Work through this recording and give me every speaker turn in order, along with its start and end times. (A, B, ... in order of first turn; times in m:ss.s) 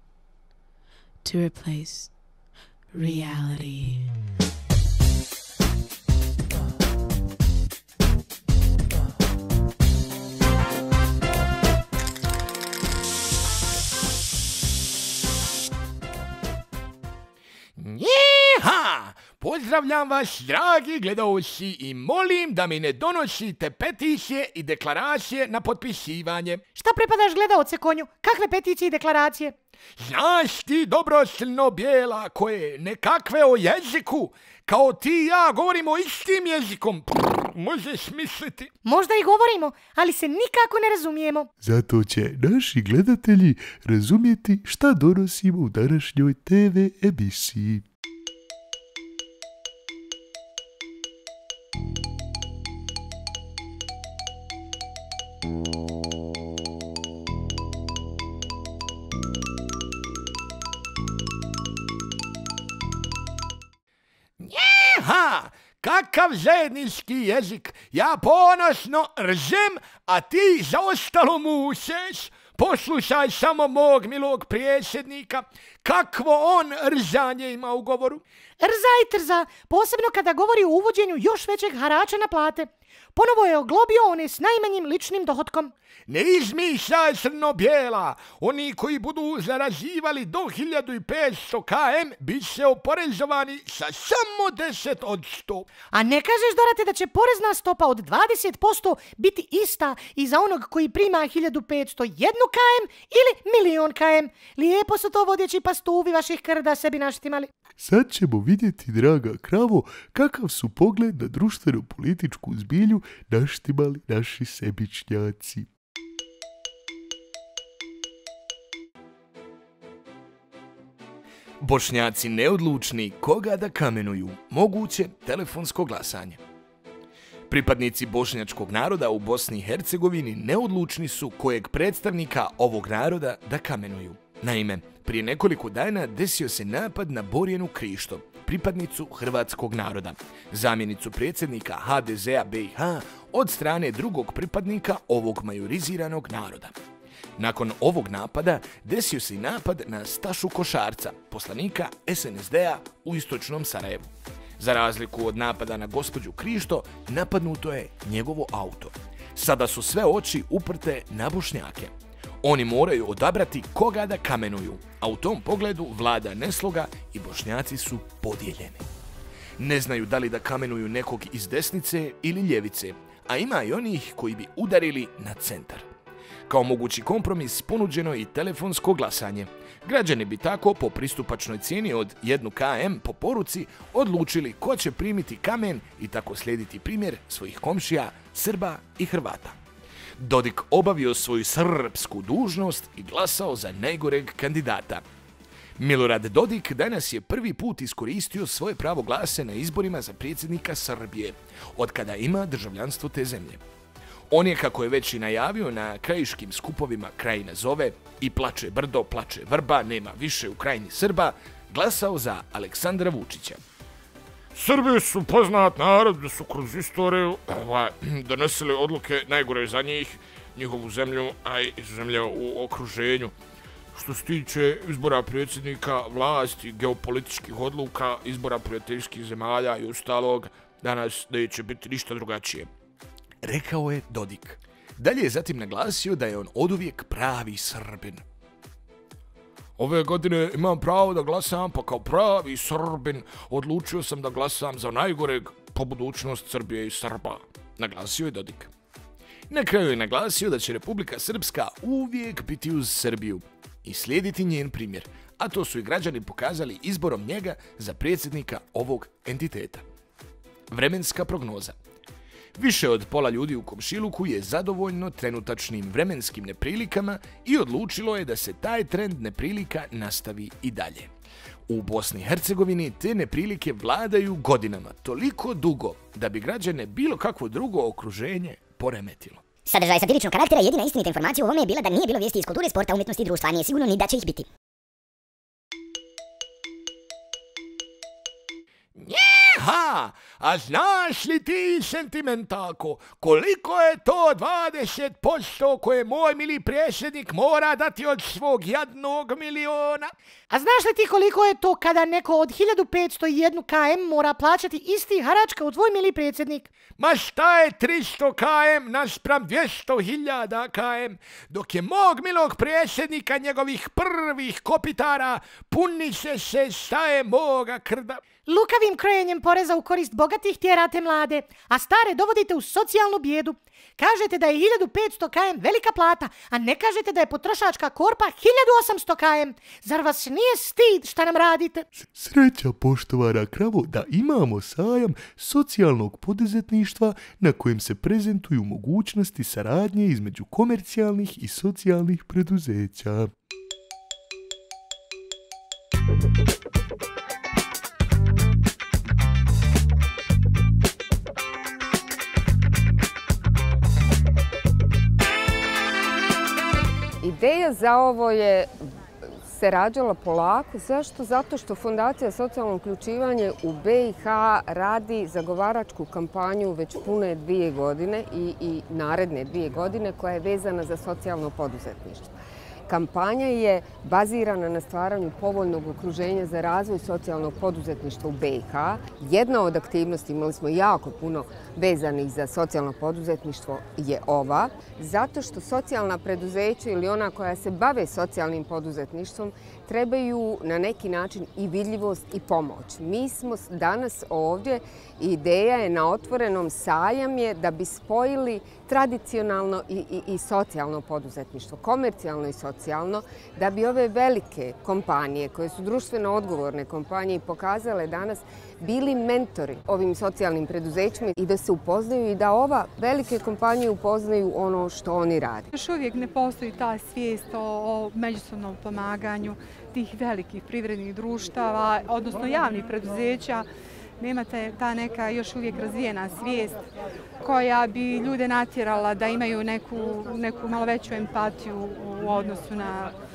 0:01.2-0:02.3 A
0:02.9-0:04.1 A
0:17.8-0:26.6 B
0:26.8-0:29.6 C
0:30.0-0:38.7 B
0:38.8-0:41.5 C
0:41.6-0:47.8 D
1:04.4-1:18.2 B
1:18.6-1:25.7 C
1:26.1-1:35.7 B
1:35.9-1:47.5 C
1:47.8-1:55.7 D
2:01.6-2:06.4 B
2:07.5-2:26.7 B
2:27.4-2:41.9 B
2:42.4-2:48.9 B
2:49.6-2:55.9 B
2:56.5-3:09.6 B
3:10.2-3:15.0 B
3:15.8-3:23.6 B
3:24.3-3:33.6 B
3:34.6-3:43.3 B
3:44.0-3:52.7 B
3:53.4-3:58.2 B
3:59.8-4:08.7 B
4:09.5-4:19.8 B
4:20.7-4:21.8 B
4:22.6-4:31.1 B
4:31.7-4:39.4 B
4:39.6-4:44.5 E
4:49.0-5:00.1 B
5:00.5-5:06.7 C
5:07.0-5:18.2 B
5:18.5-5:31.9 C
5:31.9-5:43.3 D
5:57.2-6:12.4 F
6:12.9-6:55.7 F
6:55.7-7:03.7 G
7:04.2-7:06.8 G
7:07.4-7:13.2 G